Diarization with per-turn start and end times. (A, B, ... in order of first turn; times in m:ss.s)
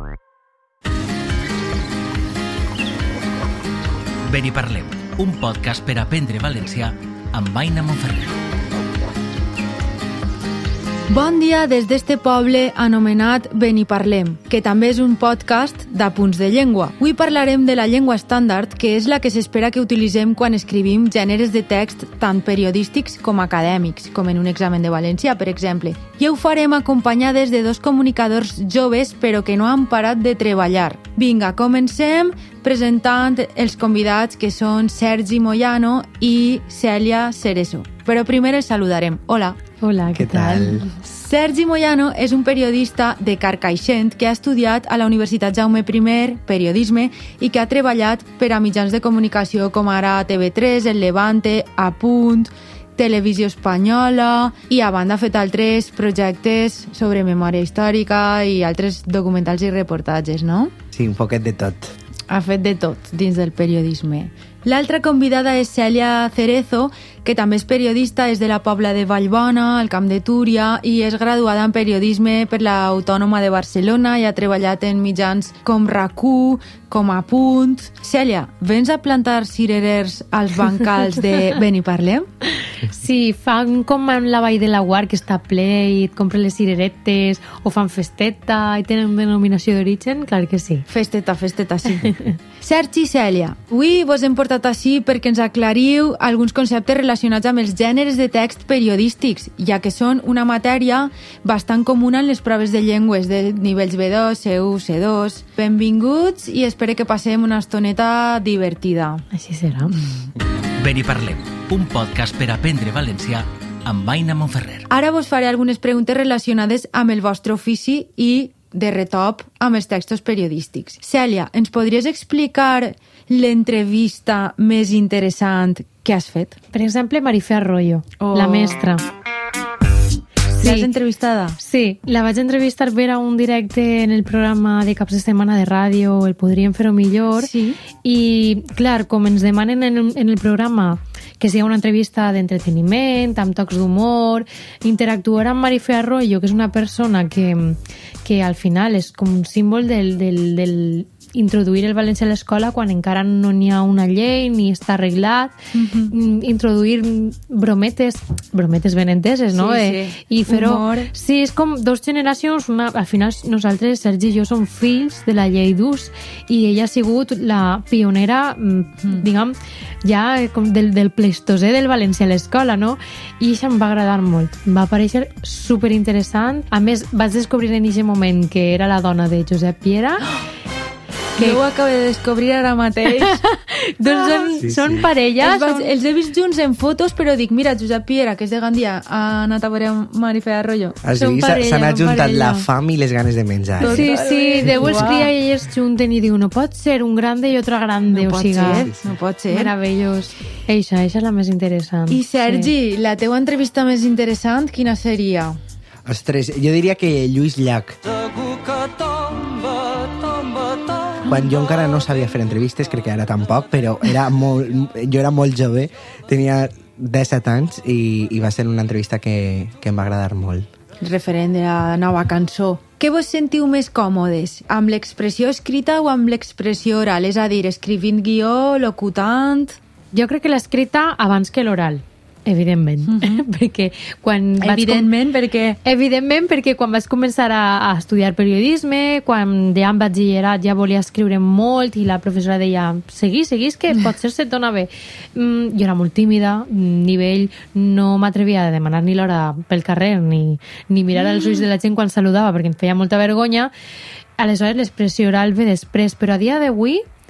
0:04.3-0:08.4 A
0:11.1-0:39.6 B
0:39.8-0:40.8 C
0:40.1-0:40.9 D
0:40.9-1:00.7 B
1:00.9-1:01.9 D
1:02.3-1:22.3 B
1:22.8-1:30.8 C
1:30.9-1:49.2 B
1:49.3-1:49.9 C
1:50.8-1:54.8 A
1:54.9-2:06.6 B
2:06.7-2:09.0 C
2:08.2-2:08.8 B
2:10.6-2:10.9 C
2:10.6-2:11.6 B
2:11.6-2:35.5 C
2:17.4-2:17.8 B
2:35.7-2:36.1 B
2:36.1-3:00.3 C
2:39.5-2:41.1 B
3:01.4-3:03.4 B
3:03.1-3:05.9 C
3:04.0-3:04.6 B
3:04.6-3:05.1 D
3:05.4-3:11.0 B
3:11.0-3:14.1 D
3:11.1-3:12.7 C
3:13.8-3:15.3 B
3:13.8-3:18.9 C
3:18.1-3:19.7 B
3:19.5-3:22.7 C
3:22.1-3:25.6 B
3:26.0-3:28.0 D
3:31.3-3:40.7 D
3:41.0-3:49.8 B
3:50.1-3:55.1 C
3:53.0-3:53.4 B
3:54.6-3:55.8 B
3:55.8-4:13.7 C
4:14.4-4:17.0 C